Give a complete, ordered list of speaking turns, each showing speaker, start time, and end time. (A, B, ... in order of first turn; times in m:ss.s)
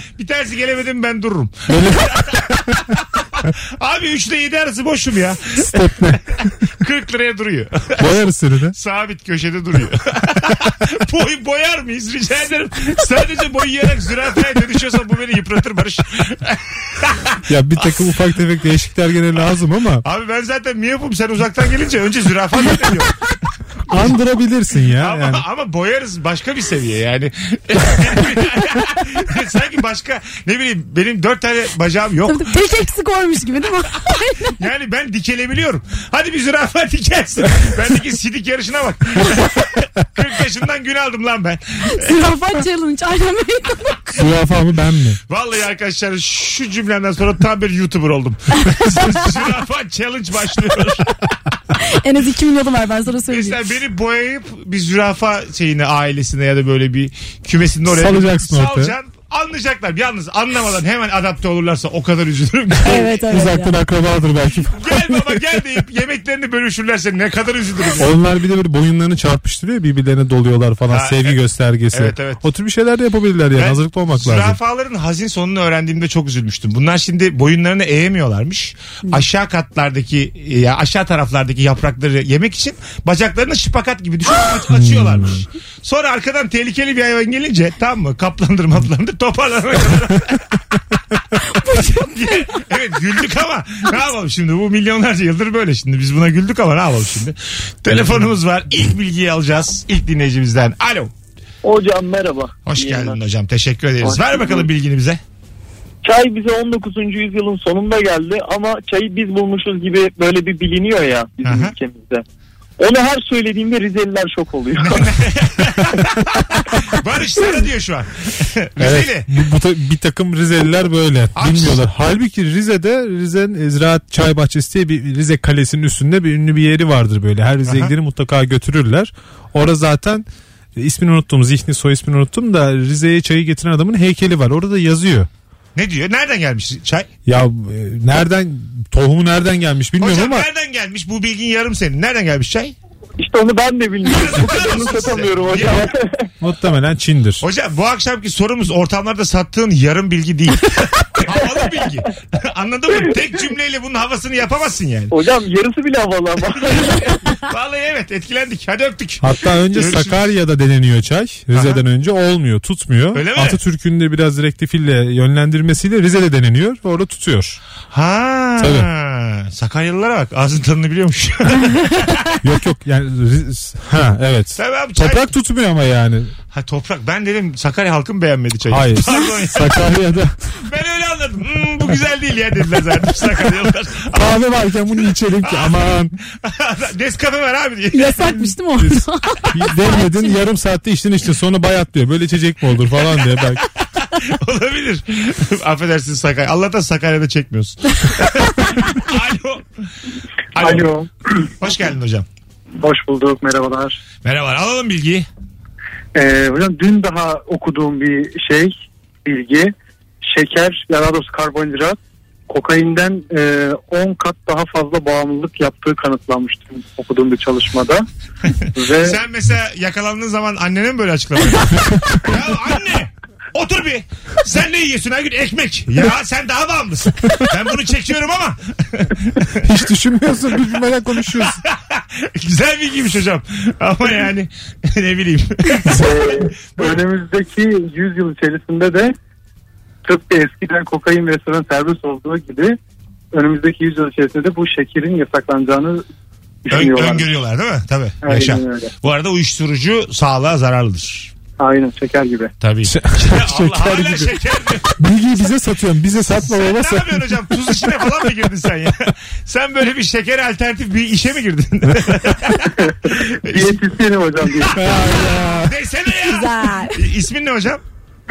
0:00.2-0:06.1 A
0:01.7-0:02.7 B
0:05.6-0:06.2 B
0:06.8-0:08.1 A
0:08.0-0:08.7 B
0:08.7-0:17.4 A
0:17.5-0:20.0 B
0:20.0-0:23.1 A
0:23.9-0:25.4 B
0:25.0-0:32.5 A
0:32.3-0:34.6 C
0:34.6-0:42.1 A
0:41.8-0:44.2 C
0:44.2-0:45.2 B
0:45.3-0:51.2 A
0:51.8-0:53.6 C
0:53.3-1:03.2 A
0:57.8-0:58.9 B
1:02.8-1:03.8 C
1:03.3-1:05.6 B
1:04.7-1:08.1 A
1:08.0-1:14.6 B
1:10.9-1:11.4 A
1:11.9-1:12.4 A
1:13.5-1:30.4 A
1:24.7-1:25.4 B
1:31.5-1:32.2 C
1:31.8-1:41.1 A
1:41.6-1:43.2 D
1:42.6-1:45.2 A
1:44.0-1:44.6 D
1:46.0-1:52.2 D
1:51.4-1:51.7 A
1:52.8-1:55.0 D
1:54.8-1:59.3 A
1:58.8-2:15.3 B
2:01.4-2:01.8 A
2:07.6-2:07.9 A
2:15.7-2:17.1 A
2:17.2-2:20.5 B
2:20.0-2:22.7 A
2:23.2-2:25.6 E
2:24.0-2:25.9 A
2:26.4-2:27.4 B
2:27.4-2:35.2 A
2:35.1-2:36.9 D
2:37.5-2:40.2 A
2:39.2-2:47.6 B
2:41.5-2:41.8 A
2:43.1-2:43.6 A
2:47.9-2:52.4 A
2:48.6-2:48.9 B
2:52.4-2:56.3 B
2:54.6-2:55.3 A
2:56.5-2:59.9 A
2:58.7-3:00.4 B
3:00.6-3:04.4 A
3:04.1-3:06.2 B
3:05.4-3:08.4 A
3:07.9-3:10.3 C
3:08.8-3:13.6 B
3:14.0-3:19.6 A
3:20.5-3:20.9 A
3:20.6-3:21.1 E
3:21.6-3:22.2 A
3:22.8-3:24.0 E
3:24.2-3:25.3 A
3:26.1-3:28.7 E
3:29.2-3:29.7 E
3:30.3-3:32.0 E
3:32.5-3:38.0 E
3:38.8-3:39.2 E
3:39.0-3:49.7 A
3:41.9-3:42.2 B
3:49.6-3:51.6 B
3:51.4-3:56.1 A
3:56.0-3:59.1 E
4:00.0-4:02.8 E
4:03.3-4:06.0 E
4:06.6-4:07.2 E
4:06.7-4:11.3 A
4:08.2-4:08.9 E
4:11.6-4:12.5 E
4:12.6-4:15.0 A
4:12.8-4:14.4 B
4:15.0-4:17.4 B
4:16.3-4:23.8 A
4:23.1-4:24.8 E
4:24.5-4:27.8 A
4:24.7-4:25.7 B
4:26.2-4:27.0 C